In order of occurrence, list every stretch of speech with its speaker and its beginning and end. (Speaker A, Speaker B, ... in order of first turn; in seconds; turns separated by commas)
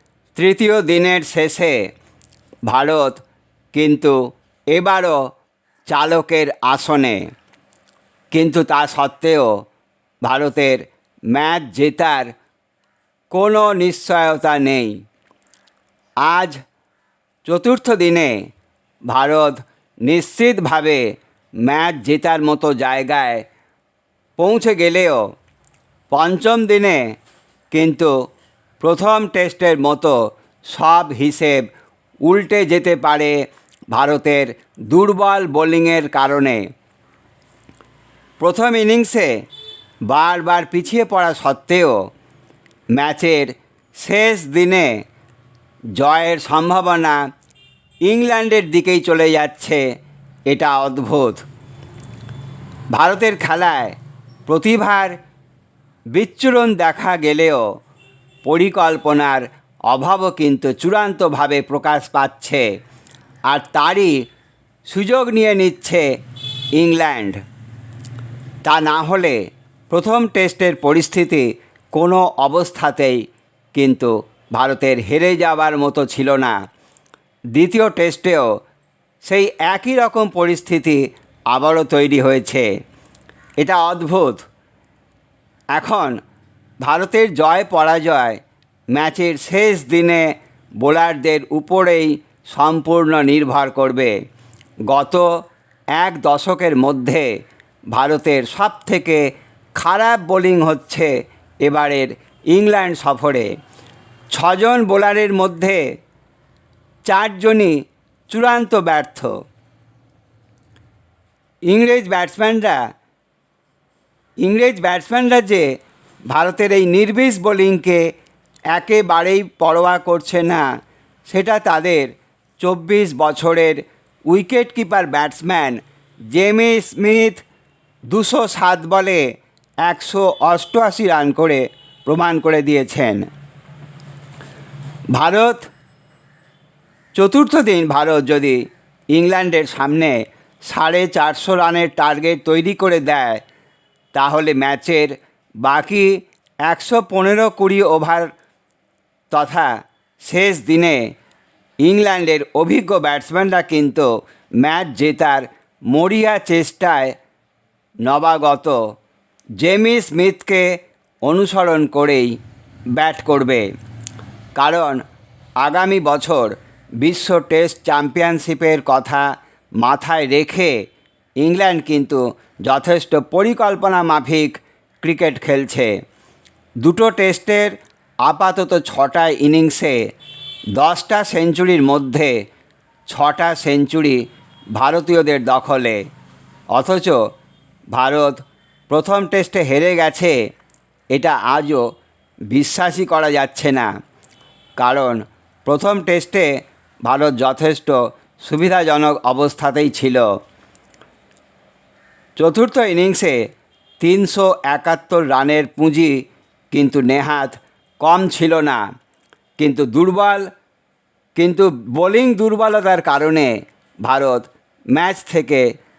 Speaker A: 0.3-1.8, Speaker A: 2.7-3.2, Speaker A: 3.7-4.2, Speaker A: 4.7-5.2, Speaker A: 5.9-7.2, Speaker A: 8.3-9.5, Speaker A: 10.2-12.3, Speaker A: 13.3-14.9, Speaker A: 16.2-16.6, Speaker A: 17.4-18.3, Speaker A: 19.1-21.0, Speaker A: 21.6-23.4, Speaker A: 24.4-25.2, Speaker A: 26.1-27.0, Speaker A: 27.7-28.1, Speaker A: 28.8-30.1, Speaker A: 30.7-31.6, Speaker A: 32.2-33.4, Speaker A: 33.9-36.6, Speaker A: 38.4-39.3, Speaker A: 40.1-42.0, Speaker A: 43.0-44.9, Speaker A: 46.0-47.2, Speaker A: 48.1-49.8, Speaker A: 50.5-51.4, Speaker A: 52.9-54.0, Speaker A: 54.5-55.1, Speaker A: 56.1-57.6, Speaker A: 58.5-62.7, Speaker A: 63.5-64.1, Speaker A: 64.9-66.1, Speaker A: 66.8-67.4, Speaker A: 68.7-69.4, Speaker A: 69.9-73.2, Speaker A: 73.7-76.6, Speaker A: 77.5-78.5, Speaker A: 79.3-82.7, Speaker A: 83.6-84.5, Speaker A: 85.8-86.2, Speaker A: 86.8-88.4, Speaker A: 88.9-90.3, Speaker A: 90.8-94.2, Speaker A: 94.9-95.3, Speaker A: 96.0-97.3, Speaker A: 97.9-99.2, Speaker A: 99.8-101.1, Speaker A: 101.7-103.5, Speaker A: 104.3-105.8, Speaker A: 107.1-107.8, Speaker A: 108.3-109.3, Speaker A: 111.7-112.8, Speaker A: 114.4-115.7, Speaker A: 116.3-118.0, Speaker A: 118.7-120.7, Speaker A: 121.3-125.8, Speaker A: 126.3-127.4, Speaker A: 128.1-129.2, Speaker A: 129.8-133.2, Speaker A: 135.1-135.7, Speaker A: 137.2-138.6, Speaker A: 139.1-143.4, Speaker A: 144.1-148.3, Speaker A: 149.3-149.7, Speaker A: 150.2-151.0, Speaker A: 151.8-154.1, Speaker A: 154.6-157.2, Speaker A: 158.1-158.8, Speaker A: 159.6-160.7, Speaker A: 161.3-162.3, Speaker A: 162.9-163.7, Speaker A: 164.6-165.0, Speaker A: 165.6-169.2, Speaker A: 169.8-170.7, Speaker A: 171.4-175.9, Speaker A: 176.8-180.0, Speaker A: 180.8-182.3, Speaker A: 183.1-184.2, Speaker A: 184.8-186.0, Speaker A: 186.7-187.2, Speaker A: 187.9-190.3, Speaker A: 191.1-191.8, Speaker A: 192.5-193.9, Speaker A: 194.8-196.5, Speaker A: 197.1-200.3, Speaker A: 202.4-203.4, Speaker A: 204.0-206.2, Speaker A: 206.7-208.8, Speaker A: 209.6-210.4, Speaker A: 211.4-213.5, Speaker A: 214.1-215.7